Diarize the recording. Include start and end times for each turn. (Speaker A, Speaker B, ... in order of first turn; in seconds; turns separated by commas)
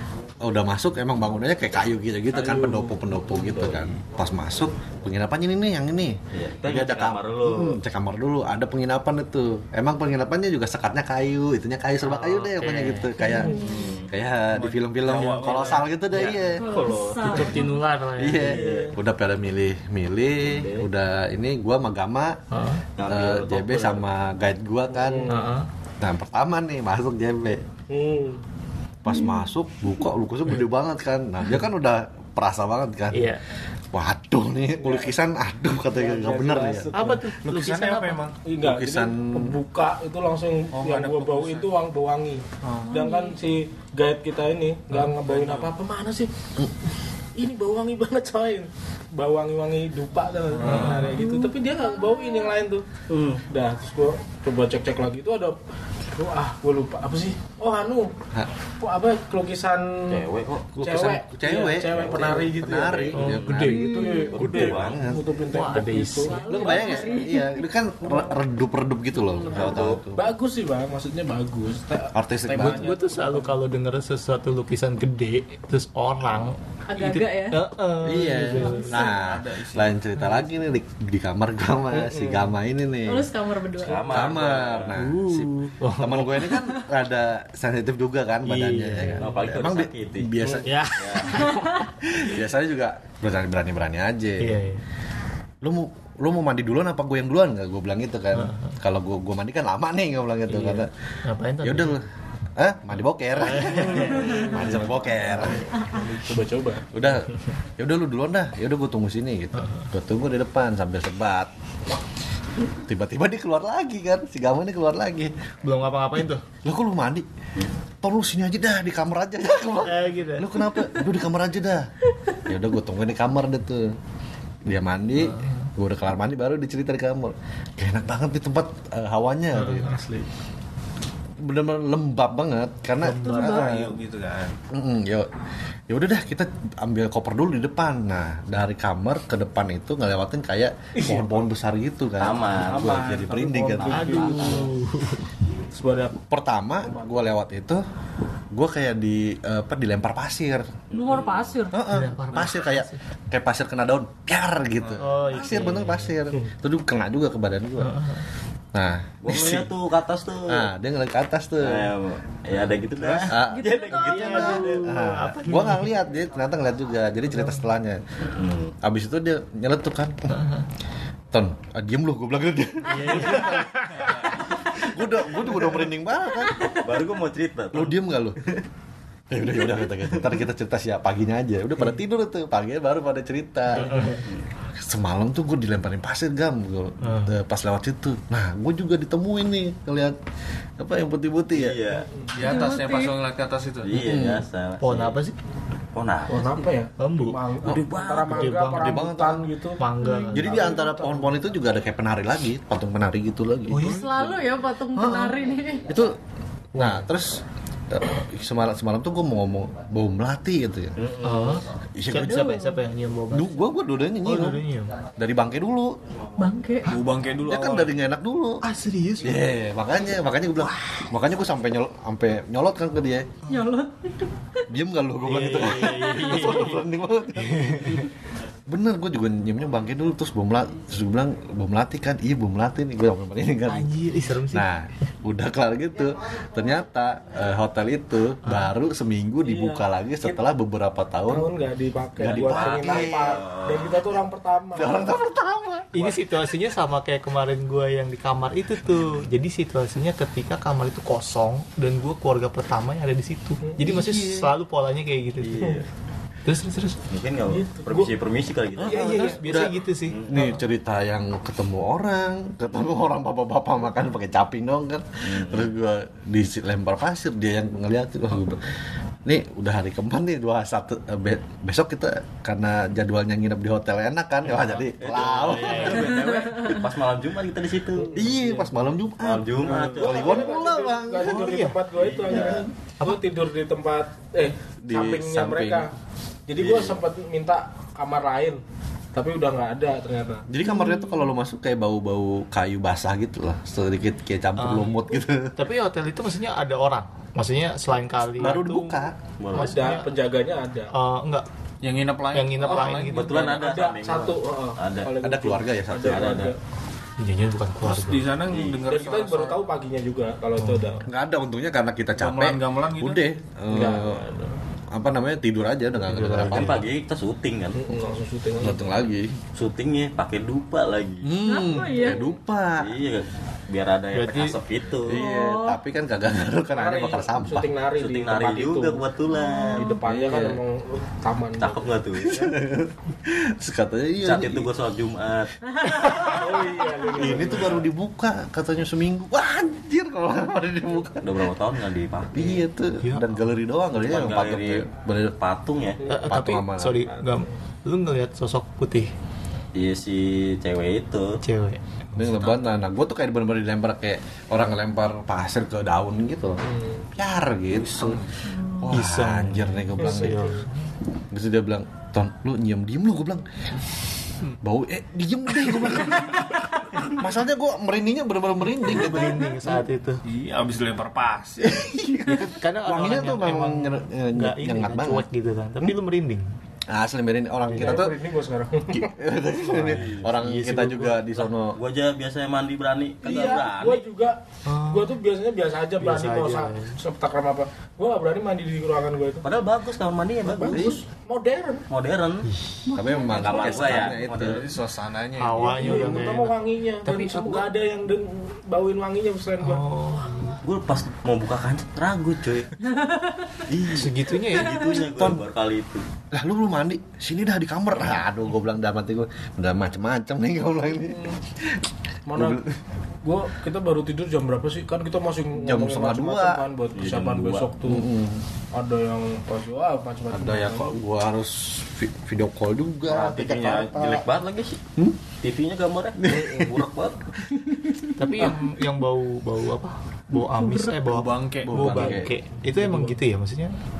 Speaker A: 0.4-13.6, Speaker B: 2.3-3.8, Speaker C: 6.3-7.8, Speaker D: 12.0-13.3, Speaker E: 13.2-13.9, Speaker C: 13.5-14.1, Speaker A: 14.1-16.6, Speaker F: 14.5-15.9, Speaker D: 16.1-16.4, Speaker E: 16.5-17.8, Speaker C: 16.6-17.6, Speaker D: 17.2-18.6, Speaker A: 18.2-22.4, Speaker C: 18.5-18.9, Speaker B: 18.5-18.9, Speaker C: 20.4-20.9, Speaker D: 22.5-22.8, Speaker C: 23.0-24.1, Speaker A: 23.0-25.3, Speaker B: 24.9-25.5, Speaker D: 25.3-25.7, Speaker A: 26.0-27.6, Speaker B: 27.9-28.4, Speaker A: 29.0-33.3, Speaker E: 29.1-29.4, Speaker D: 33.1-33.4, Speaker A: 33.9-36.9, Speaker B: 34.8-35.1, Speaker B: 35.8-37.2, Speaker D: 36.9-38.3, Speaker F: 37.4-38.4, Speaker B: 38.4-46.3, Speaker A: 38.6-39.5, Speaker F: 40.7-41.7, Speaker F: 42.6-42.9, Speaker E: 42.9-43.4, Speaker F: 44.9-45.7, Speaker B: 47.4-55.6, Speaker F: 50.5-51.2, Speaker D: 50.6-51.0, Speaker E: 51.1-52.5, Speaker C: 53.1-53.4, Speaker B: 56.1-58.1, Speaker B: 58.8-60.2, Speaker C: 60.1-60.8, Speaker A: 60.8-65.2, Speaker B: 60.8-67.2, Speaker C: 61.9-63.7, Speaker D: 63.1-63.5, Speaker E: 63.7-64.4, Speaker C: 64.3-65.0, Speaker D: 65.5-66.5, Speaker E: 66.2-67.7, Speaker A: 66.4-70.3, Speaker E: 69.4-69.9, Speaker C: 69.5-70.0, Speaker B: 70.1-73.6, Speaker A: 72.1-72.9, Speaker D: 72.5-79.0, Speaker E: 76.9-77.7, Speaker A: 78.0-83.3, Speaker E: 78.5-79.2, Speaker F: 78.9-80.0, Speaker B: 81.9-82.5, Speaker E: 83.0-84.4, Speaker C: 83.8-85.0, Speaker A: 84.0-90.8, Speaker D: 84.9-86.6, Speaker D: 88.4-89.2, Speaker C: 89.2-91.5, Speaker D: 90.5-91.7, Speaker A: 92.0-94.6, Speaker D: 94.4-94.8, Speaker A: 95.6-100.9, Speaker D: 98.3-98.7, Speaker D: 100.5-102.0, Speaker A: 101.6-102.0, Speaker A: 102.5-105.7, Speaker D: 103.4-104.5, Speaker B: 104.0-106.9, Speaker A: 106.9-111.5, Speaker D: 109.6-109.8, Speaker A: 112.8-115.3, Speaker D: 115.6-116.4, Speaker A: 116.6-117.2, Speaker A: 118.0-121.9, Speaker D: 119.8-120.5, Speaker A: 122.4-123.9, Speaker A: 124.6-130.0, Speaker D: 125.2-125.7, Speaker D: 129.5-130.0, Speaker A: 131.4-134.0, Speaker D: 133.0-133.6, Speaker F: 133.2-134.6, Speaker A: 134.7-135.3, Speaker A: 135.9-144.5, Speaker B: 140.9-141.4, Speaker C: 142.2-143.1, Speaker B: 142.6-144.7, Speaker D: 143.9-145.2, Speaker B: 145.7-146.2, Speaker A: 146.3-147.8, Speaker B: 146.8-147.2, Speaker A: 148.5-150.8, Speaker C: 150.9-151.6, Speaker E: 150.9-151.8, Speaker A: 151.7-157.9, Speaker D: 151.9-153.0, Speaker D: 155.0-156.2, Speaker D: 157.8-158.2, Speaker A: 158.7-159.7, Speaker C: 159.2-160.7, Speaker A: 160.5-161.9, Speaker C: 161.6-164.5, Speaker A: 163.3-168.0, Speaker E: 163.4-164.8, Speaker D: 163.9-165.9, Speaker D: 167.3-167.7, Speaker C: 168.3-168.7, Speaker A: 168.8-170.2, Speaker D: 170.3-170.6, Speaker A: 171.3-174.1, Speaker D: 172.9-173.9, Speaker A: 174.7-176.8, Speaker C: 176.7-177.9, Speaker A: 177.7-178.4, Speaker A: 179.3-184.2, Speaker D: 183.8-184.2, Speaker C: 184.0-184.5, Speaker A: 184.7-190.2, Speaker D: 187.0-187.3, Speaker A: 190.8-191.8, Speaker C: 191.5-192.1, Speaker F: 192.3-194.1, Speaker E: 192.4-193.2, Speaker C: 193.8-195.2, Speaker A: 193.9-194.4, Speaker D: 194.8-195.3, Speaker C: 195.9-196.7, Speaker B: 196.3-199.8, Speaker D: 197.0-197.4, Speaker C: 197.6-198.6, Speaker D: 198.3-199.0, Speaker A: 198.7-199.4, Speaker D: 199.8-200.7, Speaker E: 200.0-200.7, Speaker A: 200.3-204.4, Speaker B: 200.4-201.3, Speaker D: 203.7-204.1, Speaker E: 203.8-205.9, Speaker A: 204.9-206.2, Speaker D: 206.7-207.1, Speaker A: 206.8-211.0, Speaker C: 211.0-211.4, Speaker D: 211.2-213.6, Speaker A: 211.9-212.8, Speaker A: 213.3-214.6, Speaker D: 214.2-214.9, Speaker A: 215.1-216.0, Speaker E: 216.4-217.0, Speaker F: 216.8-218.0, Speaker A: 217.4-218.6, Speaker D: 218.6-219.4, Speaker A: 219.2-223.4, Speaker D: 220.6-221.0, Speaker E: 223.5-224.6, Speaker A: 224.7-228.1, Speaker D: 225.2-226.8, Speaker E: 225.8-226.2, Speaker D: 227.4-228.0, Speaker A: 228.7-233.9, Speaker D: 233.7-234.7, Speaker A: 234.5-241.5, Speaker D: 238.4-238.7, Speaker B: 239.4-240.5, Speaker B: 241.3-245.1, Speaker A: 242.2-243.4, Speaker C: 242.2-244.1, Speaker A: 244.7-246.4, Speaker D: 245.9-255.8, Speaker B: 253.6-253.9, Speaker A: 253.9-254.5, Speaker C: 255.4-255.8, Speaker D: 256.4-257.0, Speaker C: 257.1-259.2, Speaker B: 257.5-258.1, Speaker A: 258.8-268.7, Speaker D: 258.8-260.5, Speaker C: 260.1-260.4, Speaker C: 265.2-265.7, Speaker A: 269.2-276.0, Speaker C: 275.0-278.3, Speaker F: 275.1-276.7, Speaker D: 275.5-276.1, Speaker A: 278.1-281.6, Speaker B: 278.2-278.8, Speaker C: 279.2-280.5, Speaker F: 279.6-280.0, Speaker B: 279.9-285.9, Speaker D: 281.2-281.8, Speaker C: 281.9-282.6, Speaker A: 282.3-282.6, Speaker A: 284.8-285.9, Speaker B: 286.5-288.6, Speaker C: 286.6-287.0, Speaker B: 289.1-290.5, Speaker A: 290.5-295.6, Speaker E: 290.7-291.2, Speaker D: 294.6-295.0, Speaker D: 295.5-298.9, Speaker A: 298.4-299.2, Speaker C: 299.4-300.0, Speaker D: 299.5-300.1, Speaker B: 299.5-300.9, Speaker D: 300.9-301.4, Speaker F: 301.8-303.2, Speaker D: 302.3-303.3, Speaker B: 302.6-306.6, Speaker C: 303.0-305.1, Speaker A: 305.2-306.4, Speaker C: 306.0-306.5, Speaker D: 307.2-308.3, Speaker F: 307.8-309.6, Speaker C: 308.5-308.9, Speaker B: 308.8-311.1, Speaker D: 310.6-310.9, Speaker A: 311.0-314.3, Speaker F: 312.1-313.2, Speaker B: 313.7-314.5, Speaker A: 314.9-316.8, Speaker D: 315.9-316.9, Speaker C: 316.4-318.0, Speaker B: 317.7-318.9, Speaker A: 318.6-319.3, Speaker C: 319.5-321.3, Speaker A: 321.2-322.9, Speaker E: 321.4-322.2, Speaker C: 322.8-325.2, Speaker D: 324.1-324.6, Speaker A: 325.1-327.7, Speaker E: 325.1-325.8, Speaker B: 326.7-329.1, Speaker C: 327.9-330.6, Speaker E: 329.3-330.0, Speaker B: 329.8-332.5, Speaker C: 331.6-332.5, Speaker A: 332.3-334.7, Speaker C: 334.2-335.6, Speaker E: 335.7-336.4, Speaker A: 335.8-336.3, Speaker B: 336.4-337.9, Speaker A: 337.1-341.4, Speaker C: 341.2-342.6, Speaker A: 342.3-345.4, Speaker D: 343.0-343.5, Speaker C: 343.9-346.0, Speaker B: 346.0-346.4, Speaker D: 346.1-349.1, Speaker A: 346.2-347.0, Speaker B: 346.9-347.4, Speaker C: 349.7-351.4, Speaker D: 351.4-351.8, Speaker A: 352.1-356.6, Speaker B: 356.6-357.1, Speaker A: 357.1-360.4, Speaker E: 358.4-358.9, Speaker D: 358.9-360.7, Speaker A: 361.3-363.5, Speaker A: 364.6-369.5, Speaker D: 368.8-370.2, Speaker F: 370.2-372.5, Speaker A: 371.6-375.2, Speaker D: 372.6-376.4, Speaker A: 376.9-378.1, Speaker D: 377.7-378.0, Speaker B: 377.7-379.1, Speaker A: 378.9-381.8, Speaker D: 379.6-381.2, Speaker C: 381.7-384.0, Speaker B: 383.2-389.4, Speaker D: 384.7-385.2, Speaker D: 386.0-386.9, Speaker C: 389.4-391.0, Speaker B: 390.4-391.8, Speaker C: 391.9-392.5, Speaker D: 392.4-392.8, Speaker E: 392.9-393.7, Speaker A: 392.9-394.7, Speaker C: 393.2-394.7, Speaker F: 393.5-396.3, Speaker D: 395.4-397.6, Speaker B: 395.6-399.8, Speaker D: 399.6-400.6, Speaker C: 400.6-402.8, Speaker E: 402.9-403.6, Speaker C: 403.7-406.1, Speaker D: 403.9-404.9, Speaker A: 405.1-405.4, Speaker A: 406.3-411.3, Speaker B: 411.0-411.4, Speaker B: 412.3-412.6, Speaker A: 412.3-412.6, Speaker B: 413.2-418.1, Speaker A: 415.6-416.6, Speaker C: 416.9-417.7, Speaker A: 417.9-418.4, Speaker B: 418.7-421.0, Speaker A: 420.3-424.2, Speaker C: 423.1-424.8, Speaker C: 425.4-427.2, Speaker A: 426.2-426.8, Speaker D: 428.2-433.7, Speaker F: 430.6-432.2, Speaker A: 431.6-432.3, Speaker B: 432.6-433.2